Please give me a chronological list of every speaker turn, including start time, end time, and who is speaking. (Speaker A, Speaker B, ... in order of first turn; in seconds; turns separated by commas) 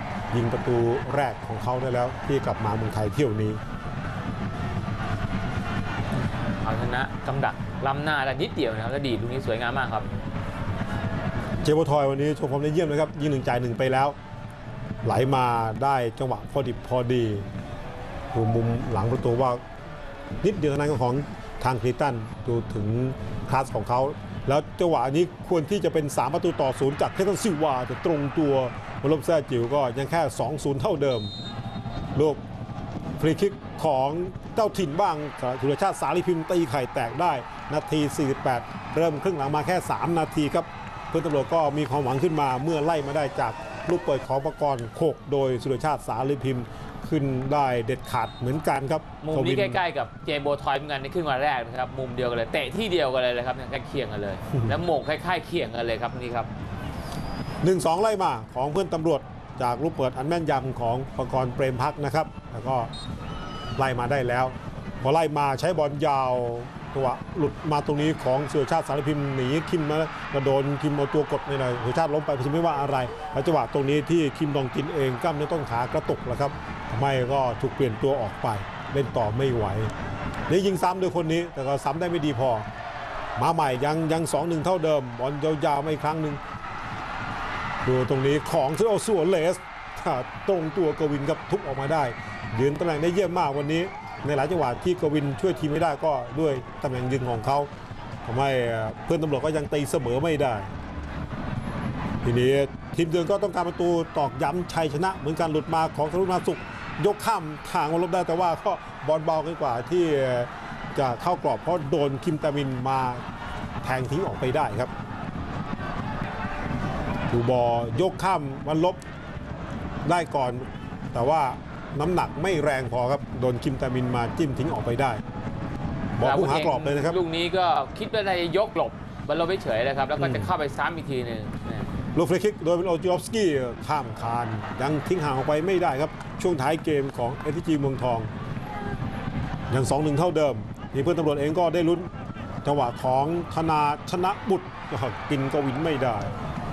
Speaker A: 0.3-3.6, Speaker B: 6.6-10.1, Speaker A: 11.6-14.2, Speaker A: 15.0-17.4, Speaker A: 18.3-19.6, Speaker A: 20.4-31.3, Speaker A: 32.1-32.4, Speaker A: 33.2-49.8, Speaker B: 49.2-56.5, Speaker A: 57.6-62.9, Speaker A: 63.8-79.9, Speaker A: 80.5-82.7, Speaker A: 83.4-86.4, Speaker A: 87.8-97.7, Speaker A: 98.2-100.7, Speaker A: 102.2-113.2, Speaker A: 113.8-114.9, Speaker A: 117.3-119.0, Speaker A: 120.0-125.2, Speaker A: 126.2-127.2, Speaker B: 126.2-131.9, Speaker A: 132.1-138.3, Speaker A: 139.7-142.1, Speaker A: 142.6-146.3